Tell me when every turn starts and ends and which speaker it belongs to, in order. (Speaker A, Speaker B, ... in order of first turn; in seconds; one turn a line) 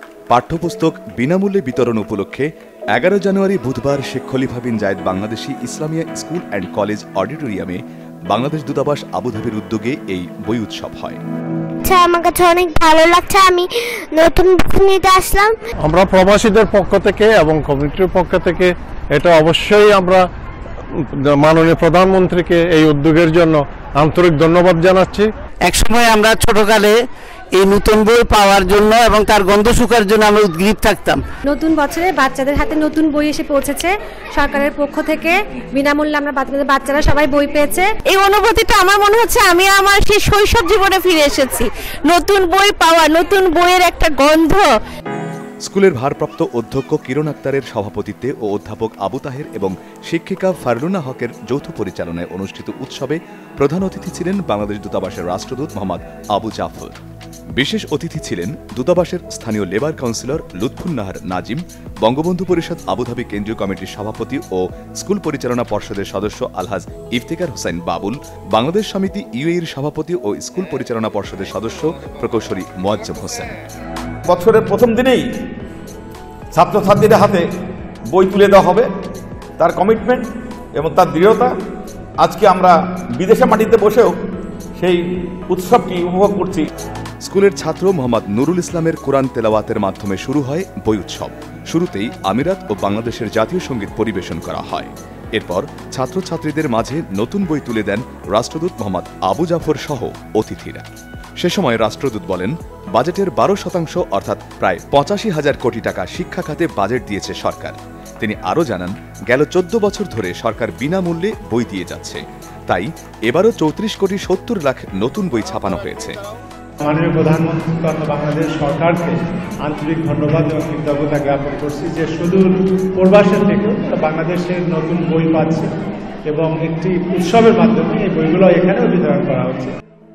Speaker A: 0.3-11.2
Speaker B: 11.8-15.6
Speaker C: 15.8-20.3
Speaker C: 20.9-25.3
Speaker D: 25.6-26.9
Speaker D: 27.5-31.2
Speaker E: 31.5-37.8
Speaker F: 38.1-44.7
Speaker A: 45.6-57.0
Speaker A: 57.5-73.5
Speaker G: 74.3-75.2
Speaker G: 76.5-77.4
Speaker G: 78.1-78.9
Speaker G: 79.6-81.5
Speaker G: 82.2-84.1
Speaker G: 84.8-86.7
Speaker A: 87.2-100.8
Speaker A: 101.4-116.2
Speaker H: 116.8-125.7
Speaker H: 126.3-129.7